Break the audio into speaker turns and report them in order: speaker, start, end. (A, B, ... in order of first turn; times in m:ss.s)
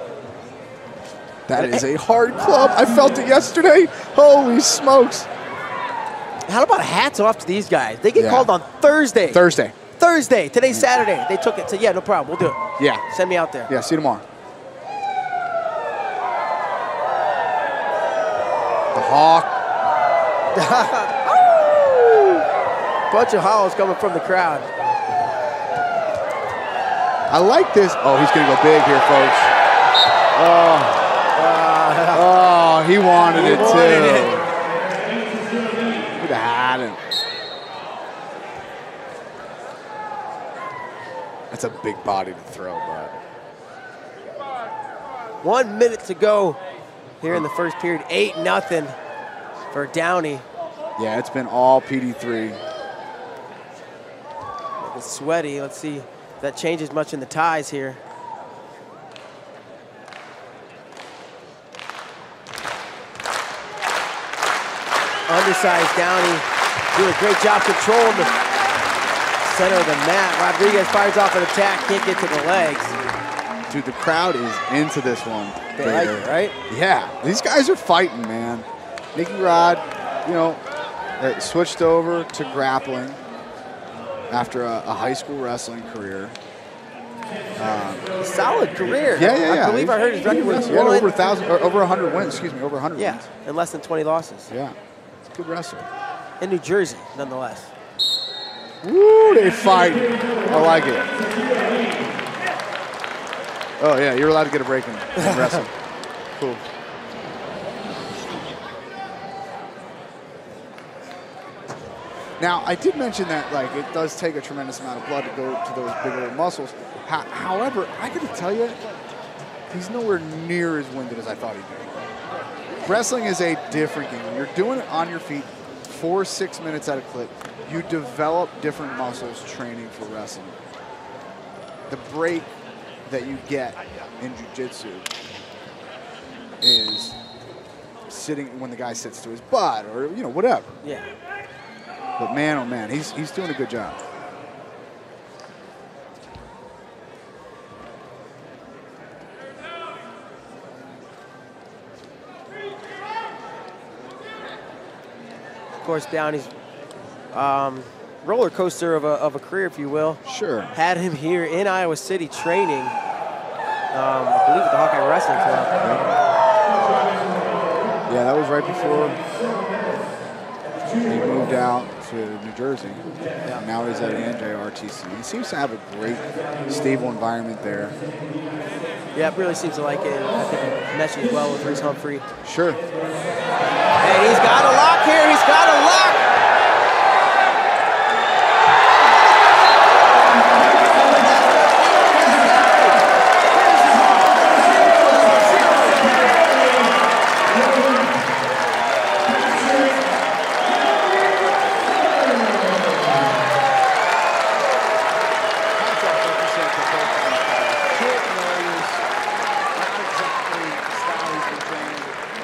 0:01.5-0:05.3 A
0:01.5-0:01.8 B
0:06.5-0:09.4 B
0:08.2-0:08.5 A
0:09.3-0:09.8 A
0:10.0-0:13.7 B
0:12.8-0:13.0 A
0:13.7-0:14.2 A
0:18.9-0:19.5 A
0:20.5-0:22.4 B
0:23.1-0:24.7 B
0:27.3-0:29.5 A
0:30.3-0:31.1 A
0:31.4-0:32.2 B
0:32.1-0:34.5 A
0:33.3-0:34.4 B
0:36.1-0:37.0 A
0:41.5-0:43.2 A
0:45.4-0:46.6 B
0:47.2-0:49.0 B
0:49.7-0:50.4 B
0:51.0-0:52.6 A
0:54.8-0:58.0 B
1:05.3-1:08.3 B
1:09.4-1:13.0 B
1:13.7-1:20.6 A
1:15.8-1:16.6 B
1:21.2-1:23.2 A
1:24.3-1:26.4 A
1:27.6-1:28.1 A
1:28.2-1:31.1 B
1:28.8-1:33.3 A
1:33.0-1:34.5 B
1:35.3-1:35.9 A
1:36.4-1:37.7 B
1:38.8-1:41.1 A
1:43.8-1:45.7 A
1:45.2-1:45.7 B
1:46.4-1:46.6 A
1:52.4-1:58.8 A
1:59.7-2:02.1 A
2:02.9-2:10.6 A
2:11.9-2:12.5 A
2:13.1-2:15.1 A
2:16.6-2:17.2 A
2:18.1-2:20.7 A
2:20.8-2:21.1 B
2:22.2-2:24.0 A
2:35.8-2:36.5 B
2:37.3-2:40.2 B
2:40.3-2:40.8 A
2:40.7-2:43.0 B
2:43.9-2:45.8 B
2:48.1-2:49.2 A
2:51.1-2:58.0 A
2:59.1-3:02.2 B
3:02.4-3:02.8 A
3:04.0-3:06.3 B
3:25.8-3:29.0 A
3:29.8-3:32.2 A